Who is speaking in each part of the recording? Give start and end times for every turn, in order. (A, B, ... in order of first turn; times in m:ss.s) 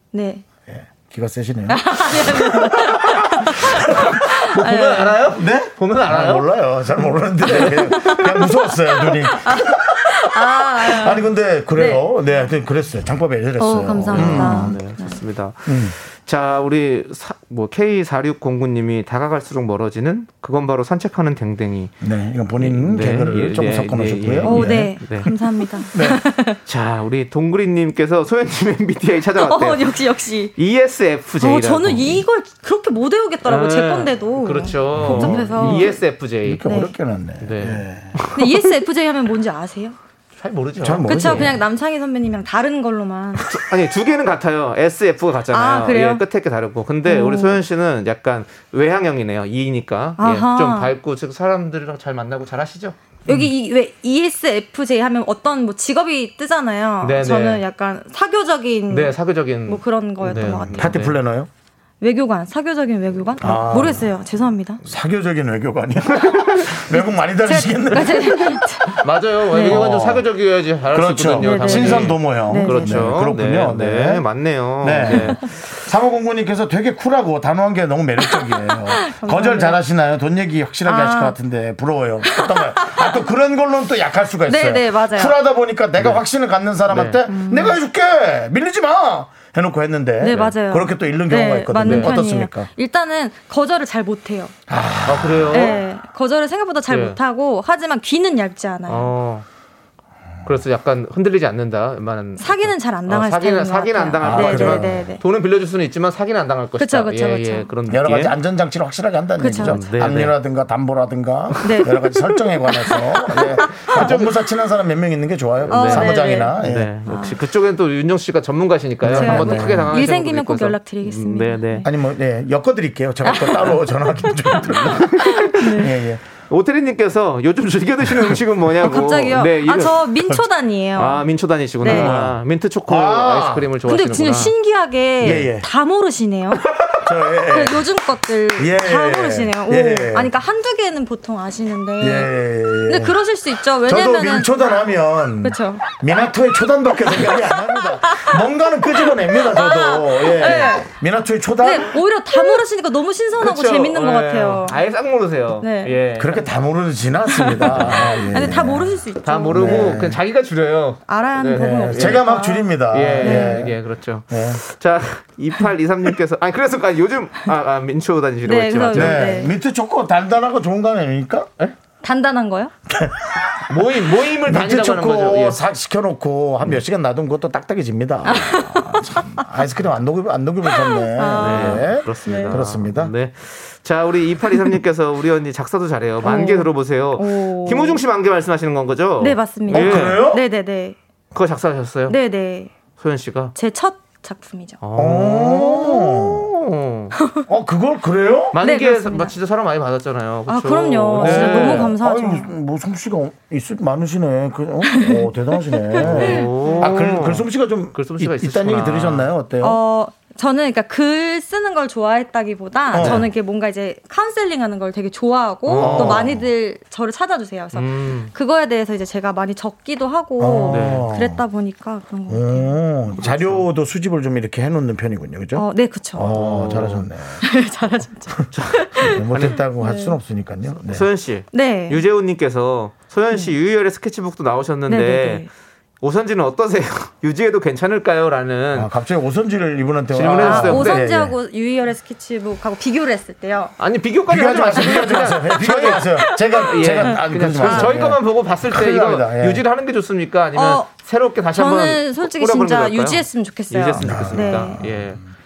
0:00.1-0:00.4 A
0:00.7-0:04.2 B
0:01.7-0:05.3 A
0:03.4-0:06.5 C
0:05.3-0:14.9 B
0:07.5-0:08.2 C
0:07.6-0:12.0 A
0:13.6-0:15.2 A
0:14.1-0:21.9 C
0:15.7-0:16.0 B
0:22.0-0:26.2 B
0:22.6-0:25.3 C
0:24.4-0:26.6 A
0:26.7-0:30.0 C
0:29.4-0:30.5 A
0:30.6-0:32.2 C
0:31.4-0:36.0 A
0:33.4-0:36.7 C
0:35.0-0:38.2 B
0:36.6-0:36.9 A
0:37.4-0:38.7 C
0:38.3-0:40.0 A
0:40.4-0:41.6 C
0:40.8-0:41.6 B
0:41.0-0:43.6 A
0:43.4-0:53.5 C
0:45.5-0:46.2 A
0:47.0-0:47.6 A
0:50.2-0:50.9 A
0:53.3-1:01.0 A
0:57.0-0:57.6 C
0:58.9-1:01.2 C
1:00.3-1:01.5 B
1:02.0-1:04.8 A
1:03.4-1:04.1 B
1:04.8-1:08.7 B
1:06.2-1:06.7 C
1:07.4-1:10.1 A
1:09.0-1:15.5 C
1:09.6-1:10.2 B
1:10.9-1:14.3 B
1:11.4-1:13.2 A
1:14.8-1:32.7 B
1:15.1-1:15.3 A
1:18.3-1:19.8 A
1:20.9-1:21.4 A
1:22.2-1:23.2 A
1:24.5-1:25.4 A
1:26.9-1:27.2 C
1:27.3-1:27.8 A
1:30.2-1:34.5 A
1:31.8-1:32.1 C
1:34.7-1:35.8 B
1:35.0-1:35.8 C
1:35.5-1:39.1 A
1:36.9-1:37.2 C
1:38.9-1:39.4 C
1:40.4-1:48.4 C
1:42.4-1:45.2 A
1:44.2-1:45.1 B
1:46.8-1:47.7 A
1:47.9-1:57.0 B
1:49.4-1:49.8 A
1:49.6-1:50.4 C
1:51.5-1:52.0 C
1:51.6-1:54.1 A
1:52.9-1:54.4 C
1:55.6-2:01.9 C
1:55.7-1:57.4 A
1:59.0-2:00.0 B
1:59.0-2:01.9 A
2:01.8-2:06.2 B
2:03.2-2:06.0 A
2:04.6-2:05.8 C
2:06.5-2:10.2 C
2:08.8-2:11.3 A
2:11.0-2:14.5 C
2:11.8-2:12.2 A
2:11.8-2:13.7 B
2:13.8-2:16.7 A
2:15.2-2:15.5 C
2:15.2-2:15.7 B
2:17.0-2:17.8 B
2:17.5-2:24.5 A
2:18.6-2:20.3 B
2:22.0-2:23.2 B
2:23.8-2:32.0 B
2:25.4-2:25.8 A
2:27.2-2:28.4 A
2:29.1-2:30.9 A
2:31.6-2:34.8 A
2:33.4-2:36.5 C
2:35.6-2:36.0 A
2:36.2-2:39.0 B
2:37.4-2:40.0 A
2:37.6-2:38.2 C
2:39.2-2:42.3 C
2:39.5-2:40.2 B
2:41.1-2:43.7 A
2:41.9-2:43.8 B
2:42.9-2:49.3 C
2:44.3-2:44.6 B
2:48.4-2:49.5 A
2:48.9-2:51.5 B
2:52.0-2:52.7 A
2:52.9-2:53.6 B
2:53.7-2:55.6 C
2:54.4-3:03.1 B
2:58.2-2:59.4 A
3:00.7-3:02.6 A
3:01.4-3:10.3 C
3:06.2-3:08.0 A
3:09.2-3:11.0 A
3:09.7-3:10.4 B
3:11.3-3:12.2 C
3:12.1-3:12.7 A
3:13.0-3:13.6 C
3:13.6-3:14.8 A
3:14.8-3:17.2 C
3:15.0-3:16.4 B
3:17.2-3:17.5 A
3:17.5-3:18.6 B
3:18.5-3:22.0 C
3:18.6-3:19.3 A
3:20.5-3:22.5 A
3:21.1-3:29.8 B
3:24.8-3:26.9 A
3:26.0-3:29.3 C
3:29.6-3:42.8 A
3:32.9-3:33.3 B
3:33.0-3:33.3 C
3:35.7-3:36.3 C
3:35.8-3:36.4 B
3:37.7-3:38.3 C
3:40.4-3:41.4 B
3:40.7-3:41.1 C
3:42.3-3:47.4 B
3:43.2-3:43.6 C
3:45.5-3:46.4 A
3:46.3-3:47.1 C
3:47.4-3:49.3 A
3:48.5-3:49.6 C
3:49.0-3:51.1 B
3:49.8-3:50.2 A
3:50.9-3:55.5 C
3:51.5-3:52.0 A
3:54.9-3:55.5 A
3:56.0-3:58.9 C
3:58.7-4:01.4 B
4:00.1-4:01.0 C
4:00.4-4:03.7 A
4:03.8-4:15.2 C
4:04.3-4:09.6 B
4:05.7-4:08.0 A
4:10.6-4:10.9 A
4:11.5-4:14.9 A
4:14.0-4:14.9 B